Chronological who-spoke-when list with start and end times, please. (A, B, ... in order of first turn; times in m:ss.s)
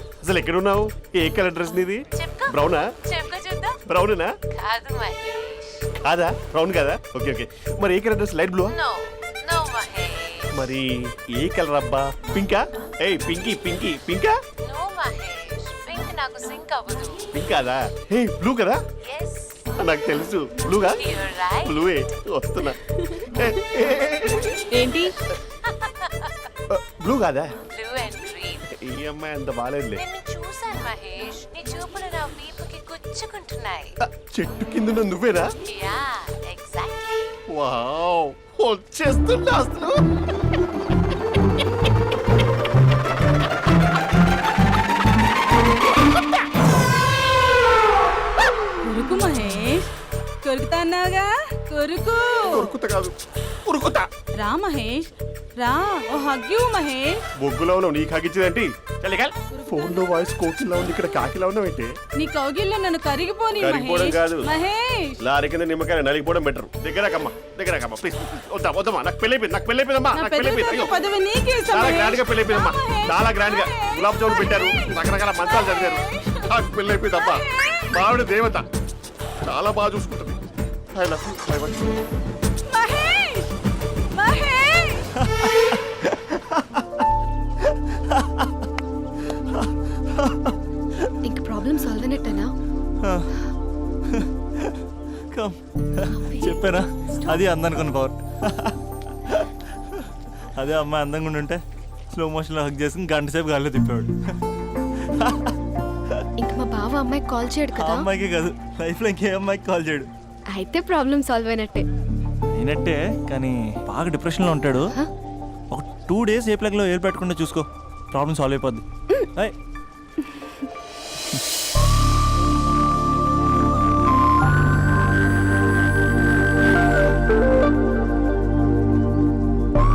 0:00.2-0:02.8 A
0:02.2-0:03.8 B
0:03.9-0:04.3 A
0:04.5-0:05.8 B
0:06.0-0:08.8 A
0:08.7-0:10.7 B
0:10.5-0:14.3 A
0:14.7-0:17.2 B
0:17.3-0:18.8 A
0:19.1-0:19.7 B
0:19.8-0:21.0 A
0:21.0-0:22.1 B
0:21.6-0:24.6 A
0:25.6-0:26.4 B
0:26.7-0:27.6 A
0:27.7-0:28.6 B
0:28.8-0:30.0 A
0:30.0-0:34.0 B
0:34.0-0:35.5 A
0:35.6-0:37.3 B
0:37.5-0:40.0 A
0:48.8-0:49.9 C
0:50.4-0:52.7 C
0:52.5-0:53.1 A
0:53.7-0:54.0 A
0:54.4-0:57.2 C
0:57.4-1:01.9 A
1:02.2-1:05.2 C
1:03.6-1:04.5 A
1:05.2-1:11.0 A
1:10.1-1:16.4 C
1:11.7-1:18.6 A
1:17.1-1:17.4 C
1:19.4-1:20.4 A
1:20.9-1:21.9 A
1:22.7-1:23.5 C
1:24.1-1:25.0 C
1:25.2-1:27.0 D
1:27.6-1:28.5 D
1:29.5-1:30.6 D
1:31.2-1:32.5 E
1:34.1-1:34.8 D
1:35.3-1:38.8 D
1:36.1-1:37.4 E
1:39.3-1:40.0 D
1:40.6-1:41.6 D
1:42.1-1:44.1 D
1:45.2-1:45.5 D
1:46.4-1:48.1 E
1:47.7-1:50.1 D
1:50.5-1:51.8 E
1:52.5-1:54.9 D
1:55.7-1:58.8 D